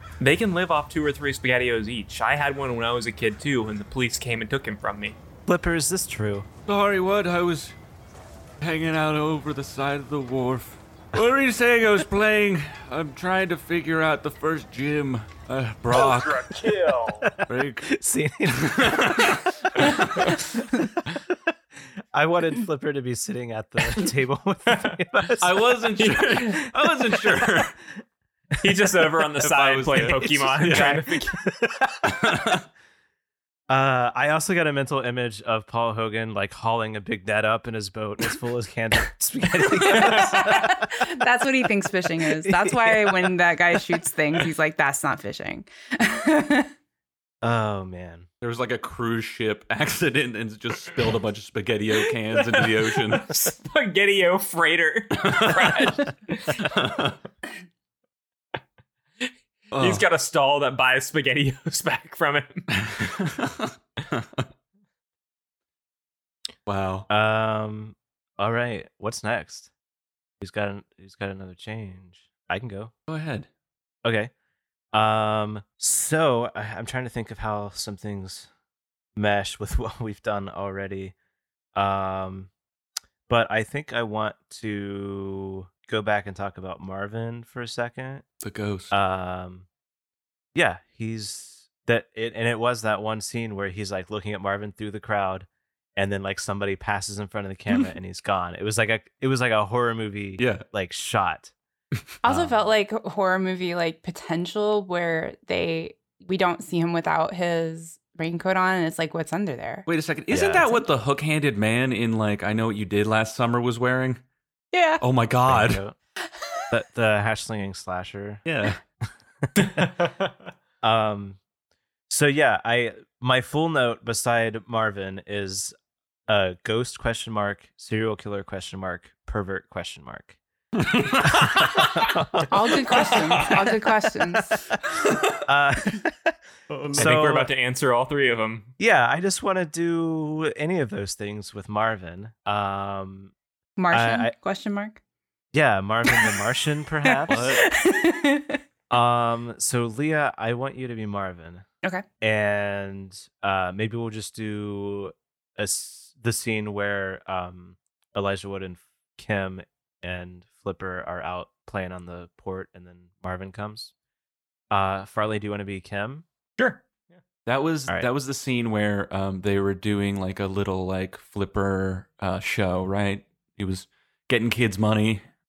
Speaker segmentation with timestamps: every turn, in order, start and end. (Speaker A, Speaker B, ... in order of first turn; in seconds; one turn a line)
Speaker A: 0.2-5.2
Speaker B: 5.5-6.5
Speaker C: 6.7-7.8
Speaker C: 8.6-16.6
Speaker A: 15.9-17.3
Speaker B: 17.2-21.3
Speaker C: 17.4-17.9
Speaker C: 18.6-20.4
Speaker B: 22.1-25.7
Speaker A: 24.7-25.0
Speaker C: 25.4-27.8
Speaker A: 26.0-26.5
Speaker A: 28.6-31.5
Speaker C: 29.4-31.0
Speaker B: 30.7-31.0
Speaker B: 31.8-32.1
Speaker C: 32.0-32.6
Speaker B: 33.7-41.0
Speaker D: 39.7-46.7
Speaker B: 42.3-43.3
Speaker B: 47.4-48.3
Speaker C: 48.4-53.3
Speaker A: 52.4-56.7
Speaker C: 55.2-55.9
Speaker C: 56.6-57.1
Speaker A: 59.2-62.6
Speaker C: 59.7-60.0
Speaker C: 62.7-64.5
Speaker C: 66.7-67.1
Speaker B: 67.1-69.7
Speaker B: 70.4-72.9
Speaker C: 73.1-73.5
Speaker B: 74.0-74.3
Speaker B: 74.9-78.5
Speaker B: 79.2-81.1
Speaker B: 81.7-82.5
Speaker B: 83.3-88.2
Speaker C: 88.4-88.9
Speaker B: 88.9-89.7
Speaker B: 90.5-101.5
Speaker C: 100.4-100.6
Speaker D: 102.2-109.9
Speaker B: 102.2-102.6
Speaker C: 109.9-114.2
Speaker B: 110.3-110.7
Speaker D: 114.7-115.0
Speaker C: 115.0-115.8
Speaker B: 115.5-115.9
Speaker B: 116.7-118.4
Speaker C: 118.4-118.8
Speaker B: 119.4-119.9
Speaker B: 120.8-121.4
Speaker B: 122.1-125.7
Speaker B: 126.3-130.4
Speaker C: 130.8-132.0
Speaker B: 131.6-132.6
Speaker D: 132.5-134.6
Speaker C: 132.9-133.5
Speaker C: 135.0-135.3
Speaker B: 135.4-136.3
Speaker C: 136.7-137.2
Speaker B: 136.9-137.5
Speaker A: 136.9-138.7
Speaker B: 138.8-143.3
Speaker D: 143.8-145.0
Speaker B: 143.9-144.3
Speaker B: 145.5-147.5
Speaker D: 146.2-146.4
Speaker D: 147.2-148.6
Speaker C: 147.3-147.7
Speaker B: 148.9-151.6
Speaker B: 152.2-163.9
Speaker B: 164.7-166.2
Speaker A: 166.6-167.2
Speaker C: 167.4-175.2